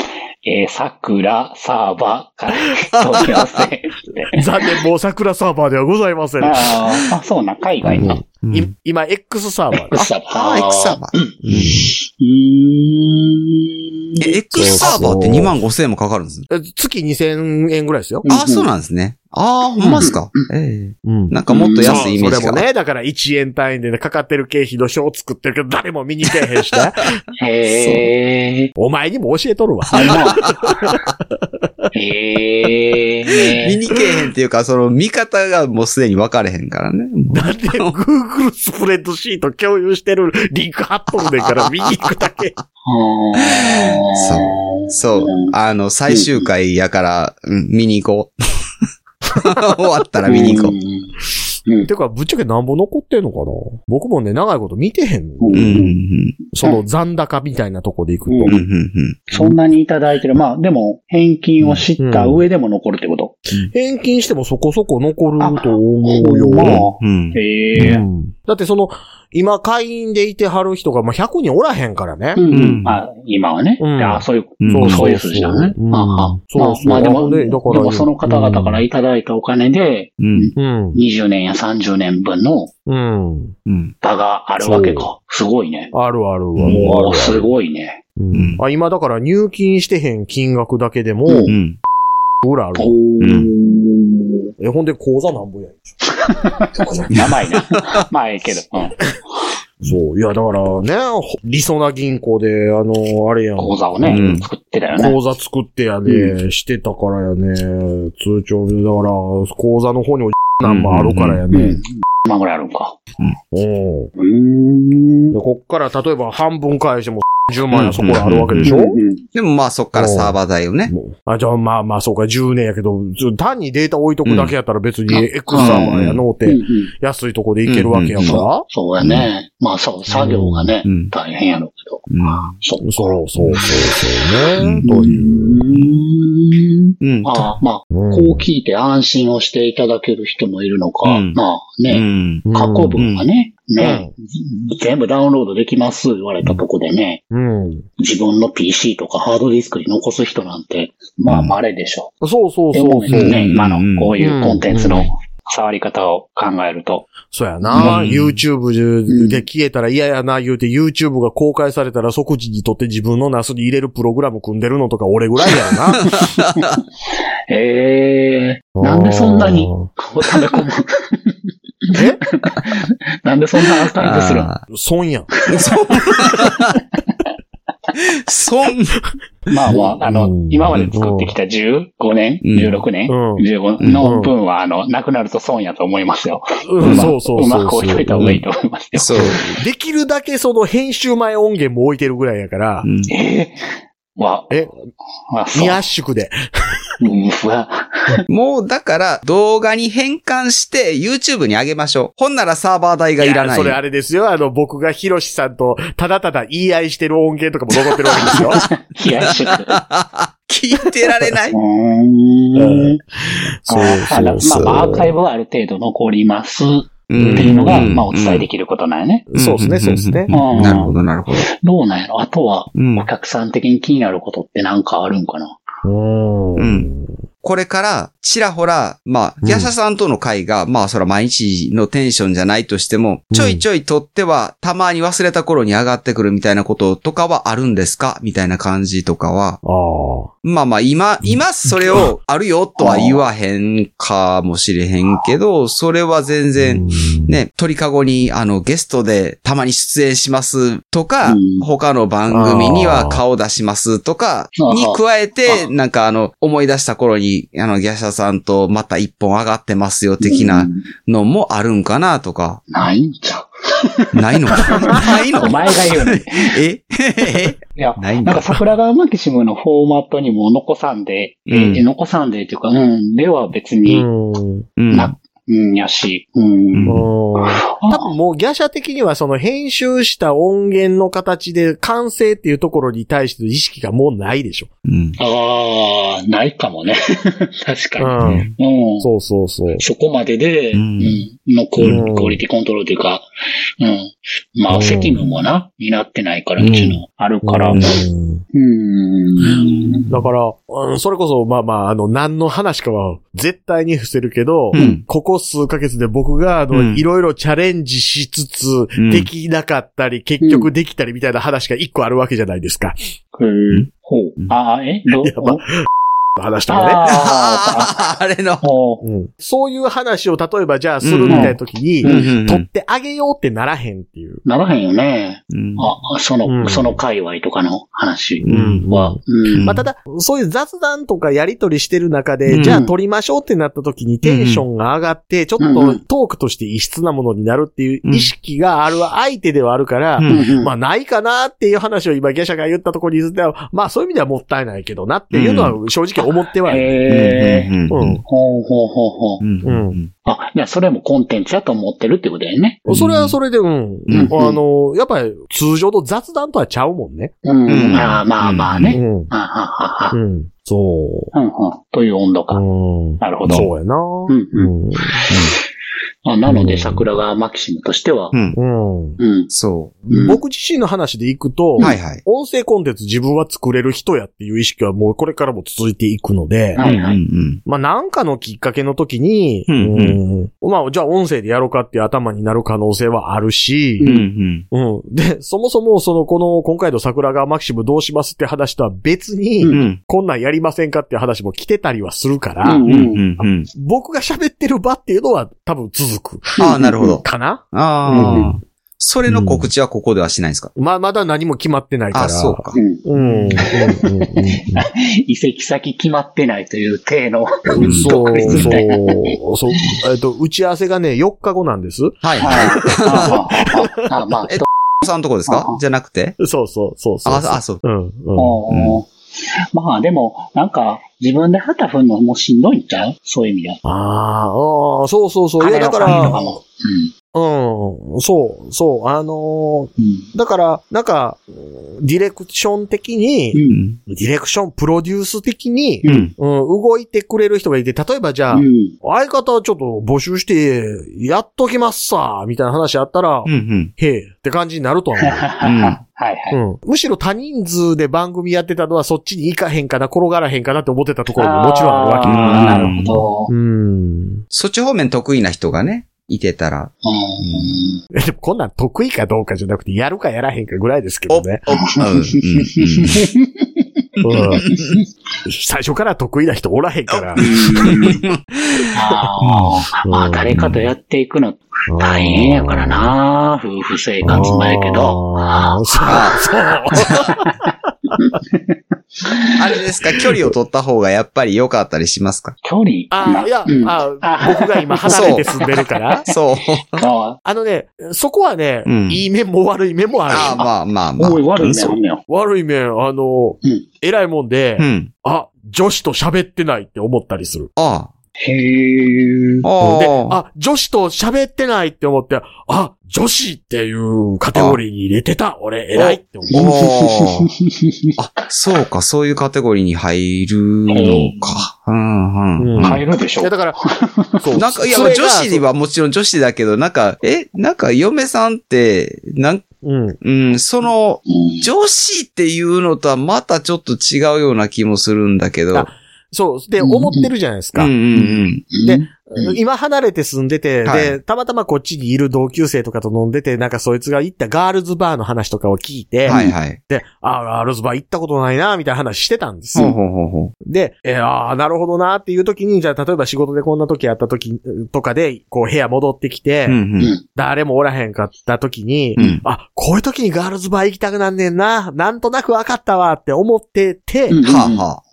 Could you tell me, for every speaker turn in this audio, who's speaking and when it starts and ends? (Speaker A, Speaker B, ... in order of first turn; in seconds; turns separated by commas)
Speaker A: 0.4-4.4, Speaker B: 2.9-3.7, Speaker C: 4.3-7.0, Speaker A: 6.4-8.2, Speaker C: 7.9-10.1, Speaker B: 7.9-8.7, Speaker A: 9.7-11.3, Speaker B: 10.3-11.8, Speaker C: 11.4-11.9, Speaker A: 12.1-14.9, Speaker B: 14.2-16.4, Speaker C: 14.5-15.6, Speaker C: 16.5-18.2, Speaker A: 18.2-18.7, Speaker B: 18.3-22.7, Speaker A: 19.9-20.5, Speaker C: 21.1-27.1, Speaker A: 21.5-22.1, Speaker B: 26.3-26.8, Speaker A: 27.4-28.7, Speaker C: 27.7-28.1, Speaker C: 28.8-31.7, Speaker B: 29.9-31.0, Speaker A: 29.9-30.5, Speaker A: 31.9-33.8, Speaker B: 33.5-37.9, Speaker C: 37.3-42.5, Speaker B: 41.2-42.6, Speaker A: 42.8-45.5, Speaker B: 43.4-48.3, Speaker A: 46.1-46.5, Speaker B: 49.4-50.8, Speaker A: 50.2-51.1, Speaker C: 51.8-55.7, Speaker A: 55.4-55.9, Speaker B: 55.5-56.4, Speaker C: 56.5-58.6, Speaker A: 58.3-58.6, Speaker B: 58.5-59.3, Speaker A: 59.3-63.5, Speaker B: 61.6-61.9, Speaker C: 62.0-62.4, Speaker C: 63.7-66.9, Speaker A: 65.4-68.0, Speaker B: 66.6-67.4, Speaker C: 67.8-72.4, Speaker A: 72.4-82.7, Speaker B: 72.5-73.0, Speaker C: 73.8-78.8, Speaker B: 74.6-75.1, Speaker B: 80.2-80.5, Speaker C: 80.6-81.0, Speaker C: 82.9-83.5, Speaker B: 83.7-83.9, Speaker A: 84.0-85.9, Speaker C: 84.6-85.1, Speaker C: 85.9-87.5, Speaker B: 86.6-86.9, Speaker A: 86.6-88.0, Speaker C: 88.2-91.5, Speaker B: 88.3-88.6, Speaker A: 91.3-91.6, Speaker B: 91.5-91.8, Speaker C: 92.4-93.0, Speaker A: 92.8-94.5, Speaker B: 93.2-93.5, Speaker C: 94.6-96.0, Speaker A: 96.2-99.0, Speaker C: 96.7-97.1, Speaker B: 97.1-98.0, Speaker C: 99.8-104.2, Speaker A: 103.6-105.2, Speaker B: 104.0-104.5, Speaker C: 105.0-111.8, Speaker A: 106.1-106.4, Speaker B: 110.6-111.4, Speaker A: 111.5-113.0, Speaker C: 113.5-114.1, Speaker A: 114.2-115.3, Speaker C: 115.3-119.0, Speaker B: 117.7-118.7, Speaker A: 118.6-119.2, Speaker B: 119.3-120.9, Speaker C: 119.9-128.7, Speaker B: 124.2-124.5, Speaker A: 125.1-126.9, Speaker B: 125.5-126.2, Speaker B: 127.6-128.4, Speaker A: 128.2-133.7, Speaker B: 129.0-129.3, Speaker C: 130.1-130.7, Speaker B: 130.8-131.1, Speaker B: 132.1-132.5, Speaker C: 132.8-135.6, Speaker B: 134.6-134.9, Speaker A: 134.8-147.2, Speaker B: 135.7-135.9, Speaker B: 137.0-137.6, Speaker C: 137.9-138.4, Speaker B: 141.0-142.4, Speaker C: 142.4-143.0, Speaker B: 143.0-143.3, Speaker C: 143.8-144.1, Speaker C: 147.3-147.9, Speaker A: 148.0-152.1, Speaker B: 151.3-151.6, Speaker C: 152.2-153.4, Speaker A: 152.7-157.1, Speaker B: 153.1-154.1, Speaker C: 154.2-155.1, Speaker C: 157.3-166.1, Speaker A: 157.6-158.1, Speaker B: 157.8-158.4, Speaker A: 159.1-159.4, Speaker B: 165.9-166.8, Speaker A: 166.1-166.7, Speaker A: 167.5-174.5, Speaker C: 168.8-169.9, Speaker C: 171.9-172.2, Speaker B: 173.9-174.6, Speaker C: 174.7-175.3, Speaker B: 175.5-176.8, Speaker A: 175.6-176.5, Speaker B: 177.9-179.0, Speaker A: 179.5-189.4, Speaker B: 179.6-179.9, Speaker C: 179.7-181.3, Speaker B: 182.4-182.8, Speaker C: 183.1-183.4, Speaker C: 184.0-184.3, Speaker C: 186.6-188.4, Speaker B: 186.8-187.1, Speaker B: 188.2-188.4, Speaker B: 188.9-189.4, Speaker C: 189.1-192.9, Speaker B: 192.8-193.1, Speaker A: 193.1-194.5, Speaker C: 194.5-194.9, Speaker A: 195.3-195.8, Speaker C: 195.5-196.3, Speaker A: 197.0-198.2, Speaker B: 198.3-203.8, Speaker C: 203.2-208.6, Speaker B: 207.9-208.6, Speaker A: 208.3-209.7, Speaker B: 209.2-211.6, Speaker A: 211.5-213.0, Speaker C: 212.6-215.1, Speaker A: 213.7-219.3, Speaker B: 217.1-218.5, Speaker C: 217.2-218.0, Speaker C: 219.3-220.9, Speaker B: 219.3-221.5, Speaker A: 220.3-225.6, Speaker B: 222.7-223.1, Speaker C: 225.8-227.2, Speaker B: 226.6-226.9, Speaker B: 227.4-239.6, Speaker C: 229.4-229.7, Speaker C: 233.3-233.7, Speaker C: 239.6-240.3, Speaker B: 240.4-262.6, Speaker C: 241.2-242.0, Speaker A: 242.8-243.2, Speaker C: 246.6-247.4, Speaker A: 251.3-251.7, Speaker C: 252.3-253.2, Speaker A: 254.6-255.7, Speaker A: 260.2-260.9, Speaker A: 262.7-266.6, Speaker B: 264.1-268.6, Speaker A: 267.7-274.1, Speaker B: 271.5-271.8, Speaker C: 273.9-274.7, Speaker B: 274.8-275.1, Speaker A: 274.9-278.1, Speaker B: 276.7-277.0, Speaker C: 276.9-284.7, Speaker B: 284.8-285.2, Speaker A: 285.2-289.1, Speaker C: 288.0-289.8, Speaker B: 288.2-288.5, Speaker A: 289.8-293.3, Speaker B: 290.7-291.2, Speaker B: 291.8-292.1, Speaker C: 291.9-292.4, Speaker A: 293.8-298.0, Speaker C: 294.7-295.3, Speaker B: 296.6-296.9, Speaker C: 296.6-298.4, Speaker A: 298.5-300.1, Speaker B: 299.5-300.1, Speaker C: 300.1-313.0, Speaker B: 304.7-305.0, Speaker B: 306.7-307.0, Speaker B: 309.0-309.3, Speaker A: 310.4-310.7, Speaker A: 313.3-315.6, Speaker C: 315.2-315.8, Speaker C: 316.4-317.1, Speaker A: 316.7-318.1, Speaker B: 317.1-318.6, Speaker A: 318.6-319.0, Speaker C: 319.0-324.4, Speaker B: 321.0-322.7, Speaker A: 321.3-322.3, Speaker A: 324.4-329.7, Speaker B: 325.5-325.9, Speaker C: 326.4-327.0, Speaker C: 328.4-347.0, Speaker B: 328.4-328.9, Speaker B: 329.5-329.8, Speaker B: 332.5-332.8, Speaker A: 332.6-332.9, Speaker B: 334.2-334.6, Speaker A: 335.6-336.0, Speaker B: 338.1-338.3, Speaker B: 340.2-340.5, Speaker A: 340.3-340.7, Speaker B: 345.3-345.8, Speaker A: 346.2-347.7, Speaker B: 347.1-348.2, Speaker C: 347.9-348.2, Speaker A: 348.3-349.4, Speaker B: 349.4-350.1, Speaker C: 349.6-350.0, Speaker A: 350.2-352.9, Speaker C: 352.9-357.3, Speaker B: 352.9-353.4, Speaker A: 354.1-354.6, Speaker A: 357.4-360.2, Speaker B: 357.7-359.0, Speaker C: 358.9-359.3, Speaker C: 360.1-361.3, Speaker A: 361.3-362.6, Speaker C: 362.5-365.3, Speaker A: 363.2-363.7, Speaker A: 364.3-365.4, Speaker B: 365.3-365.6, Speaker A: 366.2-368.3, Speaker C: 366.5-367.1, Speaker B: 368.3-368.6, Speaker C: 368.5-369.2, Speaker A: 369.2-369.5, Speaker B: 369.5-370.0, Speaker C: 370.1-376.9, Speaker A: 370.1-370.4, Speaker B: 371.8-372.2, Speaker A: 376.8-377.2, Speaker B: 376.8-377.6, Speaker C: 377.7-384.1, Speaker B: 379.7-380.2, Speaker A: 384.0-384.3, Speaker B: 384.0-384.7, Speaker C: 384.7-392.9, Speaker B: 389.7-390.0, Speaker A: 392.6-393.2, Speaker B: 392.9-393.7, Speaker C: 393.4-396.6, Speaker A: 396.6-397.2, Speaker B: 396.6-400.7, Speaker C: 397.2-398.6, Speaker A: 398.1-398.5, Speaker C: 399.3-399.7, Speaker C: 400.8-404.9, Speaker B: 402.1-403.5, Speaker A: 402.7-403.1, Speaker A: 403.6-409.4, Speaker C: 407.7-414.1, Speaker B: 407.8-408.8, Speaker B: 412.2-413.4, Speaker A: 412.4-414.7, Speaker B: 414.5-416.4, Speaker A: 415.5-415.8, Speaker C: 416.4-418.6, Speaker B: 417.2-417.8, Speaker A: 418.4-419.1, Speaker B: 418.7-418.9, Speaker A: 419.7-423.8, Speaker C: 423.8-426.4, Speaker A: 425.6-427.1, Speaker B: 426.1-426.4, Speaker C: 427.3-445.4, Speaker A: 430.0-430.3, Speaker A: 433.5-433.8, Speaker B: 433.7-434.0, Speaker A: 436.0-436.3, Speaker B: 436.0-436.3, Speaker A: 438.5-438.9, Speaker B: 443.4-443.9, Speaker A: 445.2-446.6, Speaker B: 445.6-446.0, Speaker C: 446.5-454.4, Speaker A: 451.4-453.5, Speaker B: 452.3-453.2, Speaker B: 454.5-457.7, Speaker A: 457.0-458.0, Speaker C: 458.1-461.6, Speaker B: 461.3-463.2, Speaker A: 461.8-463.8, Speaker C: 464.2-464.6, Speaker A: 464.4-465.1, Speaker B: 464.6-465.0, Speaker C: 465.4-468.1, Speaker B: 467.1-468.9, Speaker A: 467.4-468.2, Speaker A: 468.9-476.0, Speaker B: 469.4-469.7, Speaker C: 470.0-470.7, Speaker B: 470.5-470.9, Speaker C: 471.9-473.1, Speaker C: 474.2-477.5, Speaker B: 474.3-474.5, Speaker B: 476.1-477.3, Speaker A: 477.2-479.5, Speaker B: 479.6-482.6, Speaker A: 482.6-486.4, Speaker C: 483.1-486.2, Speaker B: 485.1-485.7, Speaker B: 486.3-487.1, Speaker A: 486.9-487.4, Speaker C: 487.4-490.6, Speaker B: 488.9-489.2, Speaker B: 490.3-492.0, Speaker A: 490.4-492.2, Speaker C: 492.3-497.7, Speaker B: 494.8-495.1, Speaker B: 497.8-498.1, Speaker A: 498.4-499.7, Speaker B: 499.6-500.4, Speaker C: 499.8-506.6, Speaker B: 505.9-507.5, Speaker A: 506.5-508.1, Speaker B: 508.2-513.0, Speaker A: 510.9-511.5, Speaker C: 512.6-513.8, Speaker A: 512.8-514.6, Speaker C: 514.4-515.6, Speaker B: 514.6-519.6, Speaker C: 519.8-520.2, Speaker B: 520.2-525.9, Speaker A: 521.3-521.7, Speaker C: 525.7-527.9, Speaker A: 526.8-527.3, Speaker B: 527.8-528.6, Speaker A: 528.1-529.6, Speaker C: 528.8-540.0, Speaker B: 530.9-531.2, Speaker B: 536.3-536.8, Speaker B: 539.8-540.5, Speaker C: 540.6-546.8, Speaker B: 546.7-547.1, Speaker C: 547.3-554.4, Speaker B: 549.2-549.4, Speaker A: 554.3-554.8, Speaker B: 554.4-555.0